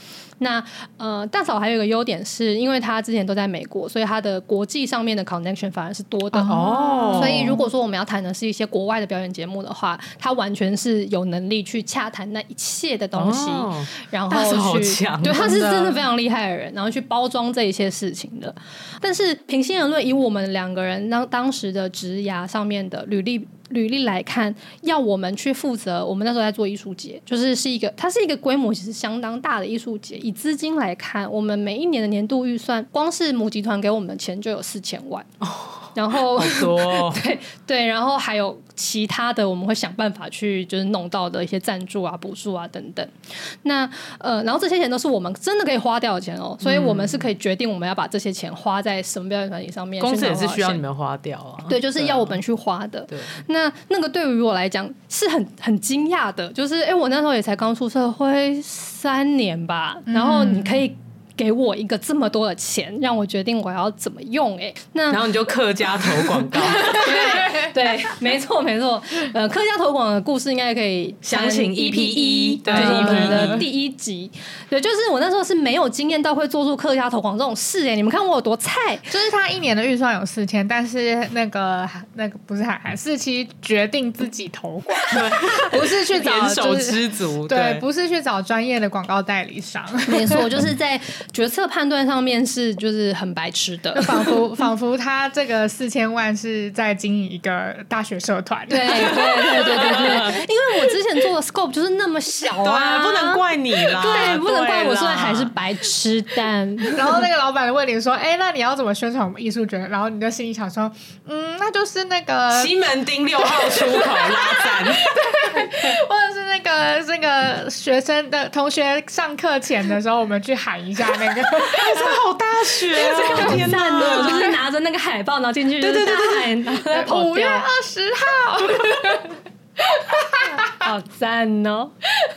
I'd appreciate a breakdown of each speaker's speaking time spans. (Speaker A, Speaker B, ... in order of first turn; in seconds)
Speaker A: 0.4-35.3, 36.0-43.1, 43.6-50.8, 51.7-65.3, 66.5-79.1, 90.1-94.3, 98.7-107.1, 123.0-127.7, 130.3-131.9
Speaker B: 6.3-7.6, 60.1-60.8, 72.7-73.7, 79.1-90.4, 94.0-100.2, 106.9-112.7, 113.4-122.2, 123.1-124.5, 126.8-129.4
Speaker C: 6.5-7.6, 13.1-16.0, 35.4-37.2, 46.6-47.3, 50.0-52.4, 53.1-53.4, 65.1-67.4, 71.2-73.6, 85.1-87.8, 99.0-100.3, 102.6-105.5, 112.5-115.1, 121.5-124.6, 125.8-126.6